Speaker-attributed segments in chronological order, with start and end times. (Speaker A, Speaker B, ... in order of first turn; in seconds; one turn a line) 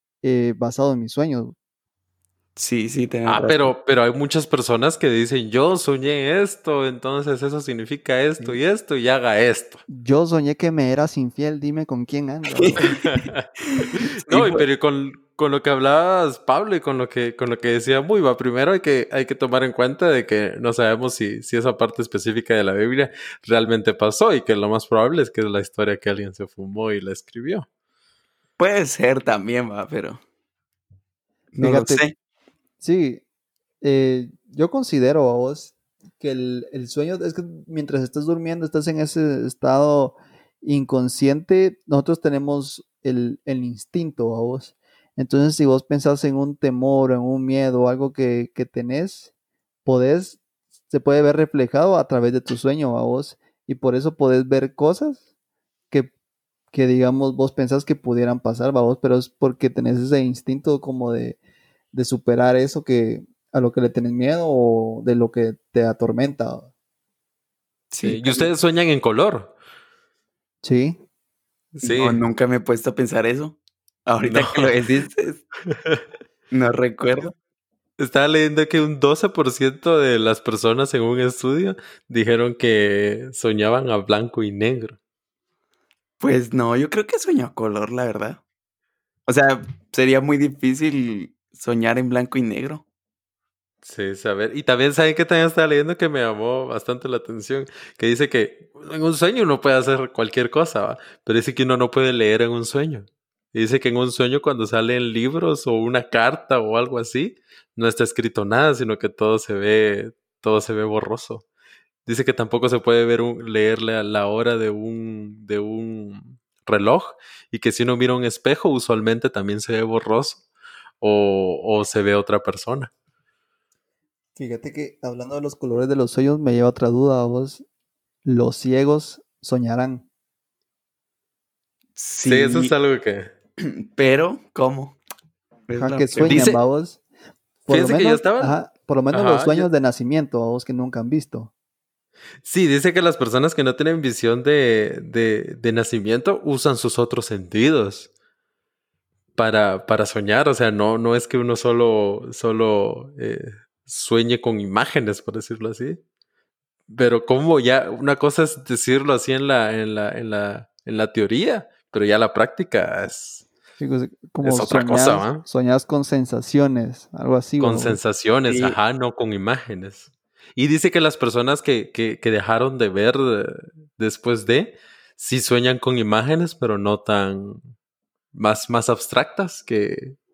Speaker A: 0.2-1.5
Speaker B: 2.5-3.7
Speaker C: 3.3-9.8
Speaker A: 9.9-12.9
Speaker B: 12.5-14.6
Speaker C: 12.8-13.4
Speaker C: 14.0-27.6
Speaker B: 28.6-30.2
Speaker B: 31.5-32.1
Speaker A: 31.6-32.0
Speaker A: 32.8-33.2
Speaker A: 33.8-49.3
Speaker A: 49.9-55.2
Speaker A: 56.7-61.4
Speaker A: 61.9-66.7
Speaker B: 67.9-68.5
Speaker C: 68.0-69.5
Speaker A: 70.6-71.0
Speaker C: 71.8-72.2
Speaker B: 71.8-75.4
Speaker C: 74.2-74.7
Speaker C: 75.7-76.0
Speaker B: 76.5-77.3
Speaker C: 78.0-85.0
Speaker B: 86.2-88.4
Speaker B: 89.3-92.8
Speaker C: 93.8-111.4
Speaker C: 112.0-120.4
Speaker C: 121.0-122.9
Speaker A: 124.4-127.6
Speaker A: 128.2-130.1
Speaker B: 131.9-132.7
Speaker C: 132.2-133.3
Speaker B: 133.6-135.0
Speaker B: 135.7-136.5
Speaker A: 135.8-137.0
Speaker C: 136.3-136.6
Speaker A: 137.7-141.5
Speaker C: 137.7-138.5
Speaker C: 139.1-139.7
Speaker C: 142.4-148.1
Speaker C: 149.4-156.0
Speaker C: 156.9-163.4
Speaker A: 163.8-168.0
Speaker C: 164.4-165.4
Speaker C: 167.6-177.6
Speaker B: 168.5-168.8
Speaker C: 178.3-180.2